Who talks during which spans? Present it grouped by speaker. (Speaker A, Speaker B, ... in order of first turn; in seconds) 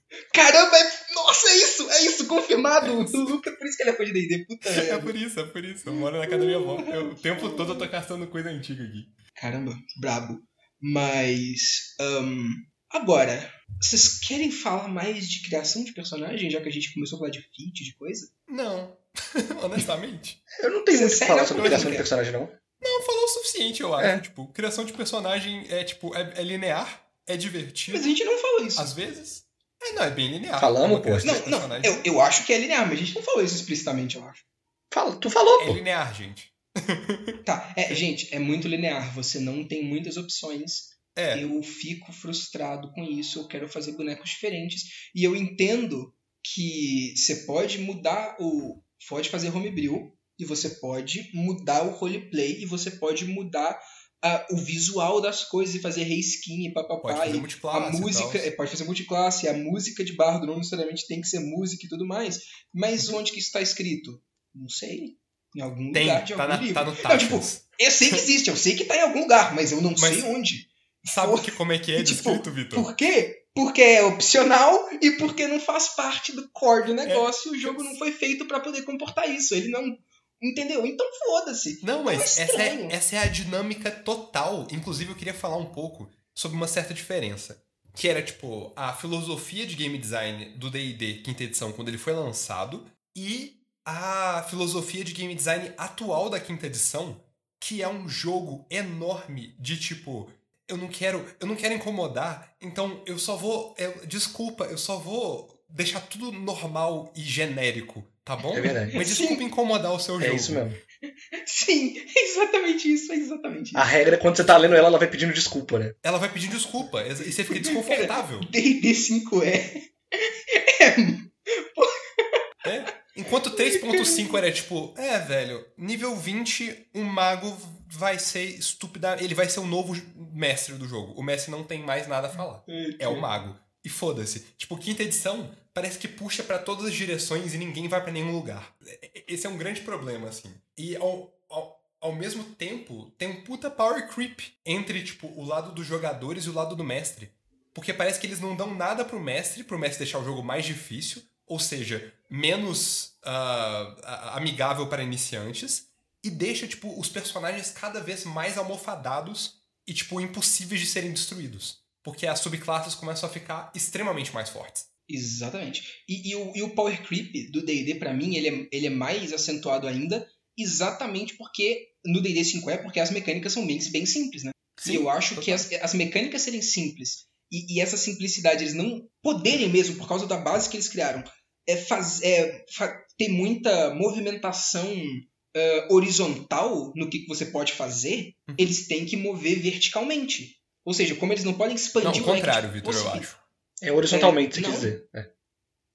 Speaker A: 0.3-5.1, 5.9-7.9, 9.3-18.3, 20.9-22.1, 27.9-28.9, 31.2-34.4, 37.4-83.0, 108.9-109.4, 111.4-113.9, 117.5-122.3, 123.5-124.3, 132.7-133.3, 165.1-193.3, 194.1-194.9
Speaker B: 2.8-3.4, 4.7-9.1, 18.5-20.4, 21.6-22.0, 22.8-28.1, 28.8-32.0, 35.5-37.4, 41.1-41.5, 57.0-58.5, 65.9-68.2, 70.0-70.3, 71.1-72.9, 77.0-78.0, 81.8-110.6, 114.4-114.9, 116.0-118.5, 122.6-164.9, 174.8-175.7, 192.0-193.4
Speaker C: 20.6-22.5, 30.6-31.5, 34.9-35.8, 108.5-109.0, 110.2-110.8, 113.7-115.9, 193.8-195.3